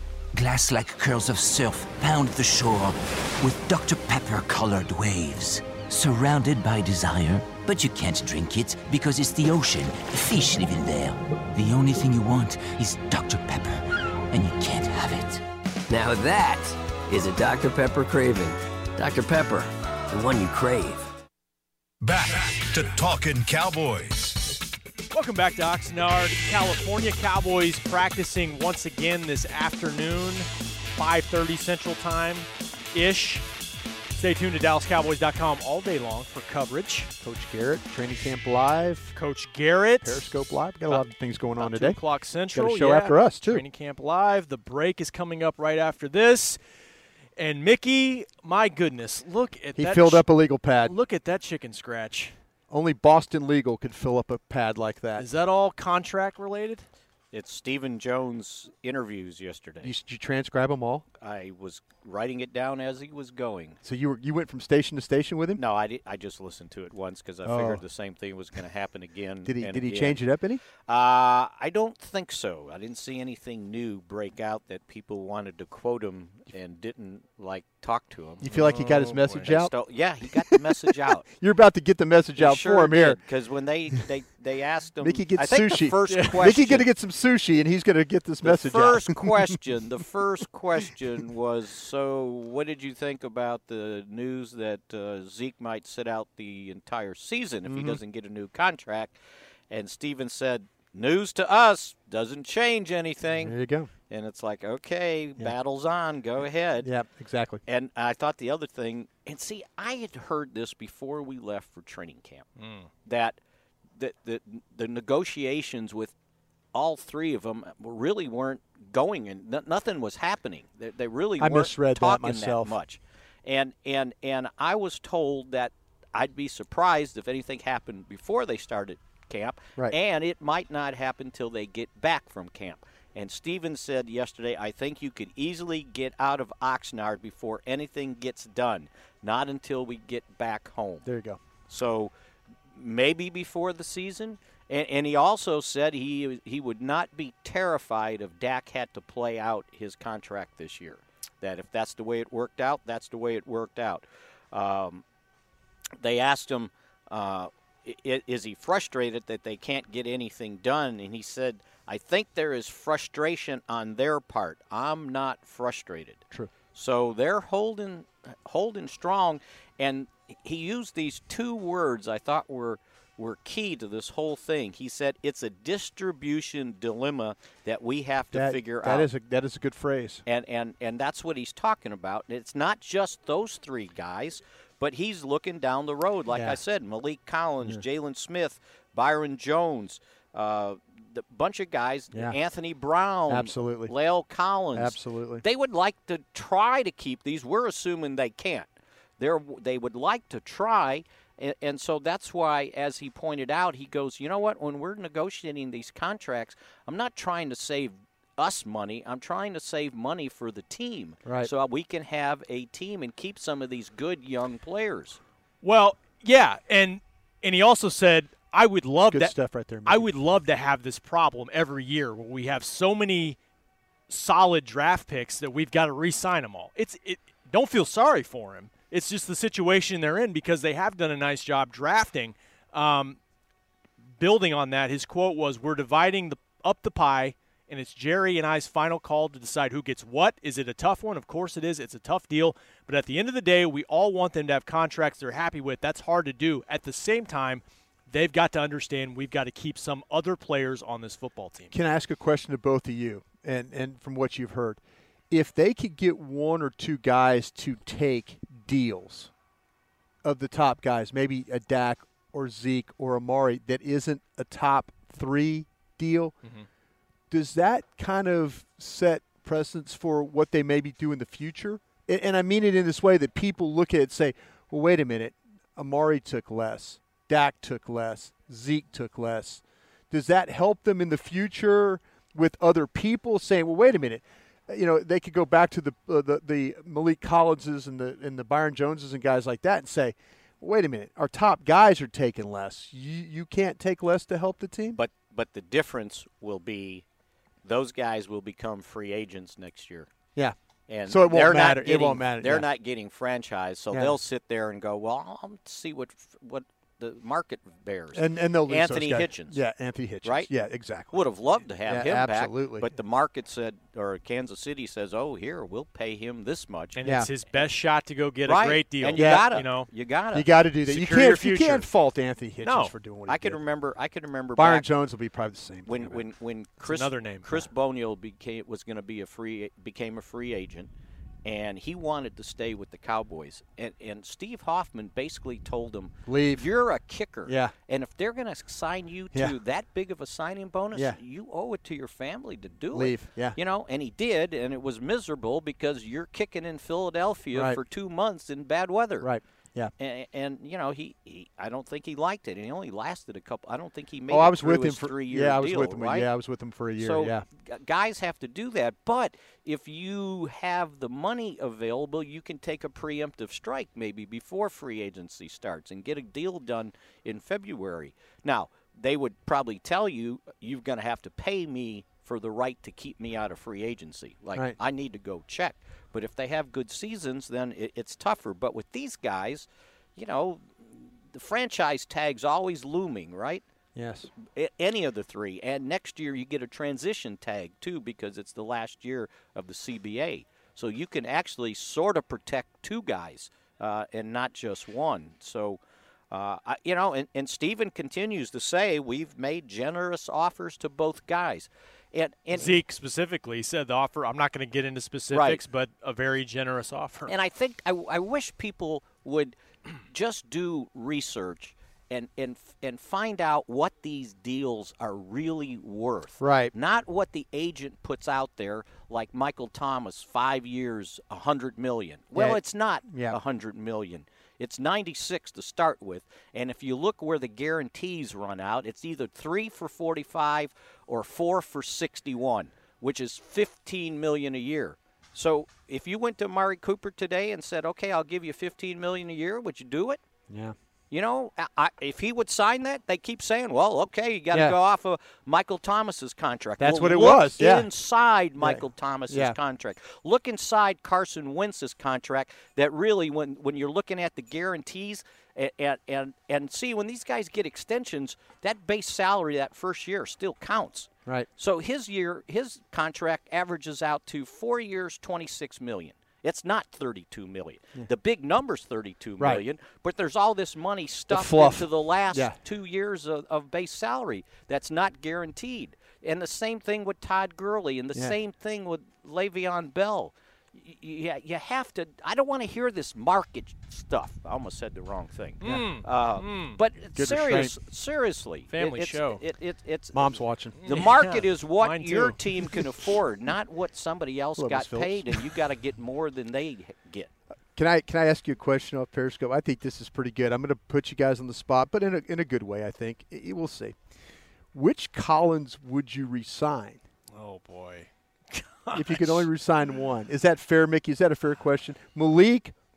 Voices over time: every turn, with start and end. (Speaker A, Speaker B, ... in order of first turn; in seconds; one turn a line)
Speaker A: 0.3-15.4
Speaker B: 15.9-21.0
Speaker C: 22.0-24.4
Speaker D: 25.1-33.5
Speaker D: 34.1-37.1
Speaker E: 37.2-39.1
Speaker D: 39.1-40.2
Speaker E: 40.0-42.0
Speaker D: 41.6-46.6
Speaker E: 42.5-43.6
Speaker D: 47.4-50.2
Speaker E: 49.8-50.9
Speaker D: 50.8-52.3
Speaker E: 52.7-55.3
Speaker D: 55.2-56.9
Speaker F: 57.3-59.9
Speaker E: 59.8-61.0
Speaker F: 61.2-63.8
Speaker E: 63.8-65.6
Speaker F: 65.5-70.2
Speaker E: 67.4-67.8
Speaker E: 69.4-70.6
Speaker F: 70.9-78.7
Speaker E: 78.4-79.7
Speaker D: 78.5-79.5
Speaker F: 79.4-81.2
Speaker E: 80.5-83.2
Speaker F: 82.4-86.9
Speaker E: 85.0-89.5
Speaker F: 88.4-99.1
Speaker E: 97.7-98.0
Speaker F: 99.7-103.5
Speaker E: 103.3-103.9
Speaker F: 104.1-106.9
Speaker E: 106.8-107.6
Speaker F: 107.7-112.5
Speaker D: 112.6-112.9
Speaker F: 113.0-113.4
Speaker F: 114.0-116.1
Speaker F: 116.7-141.1
Speaker E: 121.4-122.8
Speaker E: 141.0-141.4
Speaker F: 141.7-142.1
Speaker F: 142.7-155.0
Speaker F: 156.0-166.2
Speaker F: 166.7-179.1
Speaker E: 178.3-180.2
Speaker F: 180.2-215.2
Speaker E: 186.3-186.6
Speaker E: 193.3-193.9
Speaker E: 194.7-195.4
Speaker E: 211.2-211.5
Speaker D: 215.6-223.4
Speaker E: 219.1-220.1
Speaker D: 224.1-233.2
Speaker D: 234.2-251.7
Speaker E: 251.7-254.8
Speaker E: 255.3-259.3
Speaker E: 260.2-266.3
Speaker E: 267.3-295.0
Speaker F: 294.9-297.0
Speaker F: 297.6-300.1
Speaker E: 300.3-302.7
Speaker F: 300.9-309.6
Speaker E: 308.1-311.2
Speaker F: 310.2-310.5
Speaker F: 311.1-317.0
Speaker E: 311.9-312.9
Speaker D: 316.9-319.9
Speaker E: 317.0-317.3
Speaker F: 318.4-320.5
Speaker E: 319.1-319.5
Speaker E: 320.3-323.6
Speaker D: 320.9-321.9
Speaker D: 322.6-322.9
Speaker F: 323.3-324.9
Speaker E: 324.6-326.2
Speaker F: 325.9-330.9
Speaker D: 326.8-327.7
Speaker F: 331.4-349.3
Speaker E: 336.2-336.7
Speaker E: 337.4-337.7
Speaker E: 340.9-341.2
Speaker E: 342.9-343.6
Speaker E: 347.5-347.8
Speaker E: 349.2-349.9
Speaker F: 350.0-356.3
Speaker E: 354.3-357.4
Speaker F: 357.0-383.6
Speaker E: 383.9-384.3
Speaker F: 384.4-395.8
Speaker F: 396.3-402.8
Speaker D: 402.5-407.3
Speaker F: 405.3-405.6
Speaker F: 407.3-409.5
Speaker F: 410.1-440.2
Speaker E: 416.4-416.7
Speaker E: 422.3-423.4
Speaker E: 440.5-440.7
Speaker F: 441.1-497.3
Speaker E: 446.8-447.9
Speaker E: 448.6-449.6
Speaker E: 471.3-472.6
Speaker D: 485.6-486.8
Speaker E: 487.1-487.7
Speaker D: 488.7-489.4
Speaker E: 490.1-491.0
Speaker D: 490.8-492.8
Speaker E: 494.6-495.4
Speaker E: 497.7-503.9
Speaker E: 504.7-507.0
Speaker D: 507.3-509.5
Speaker E: 508.9-512.7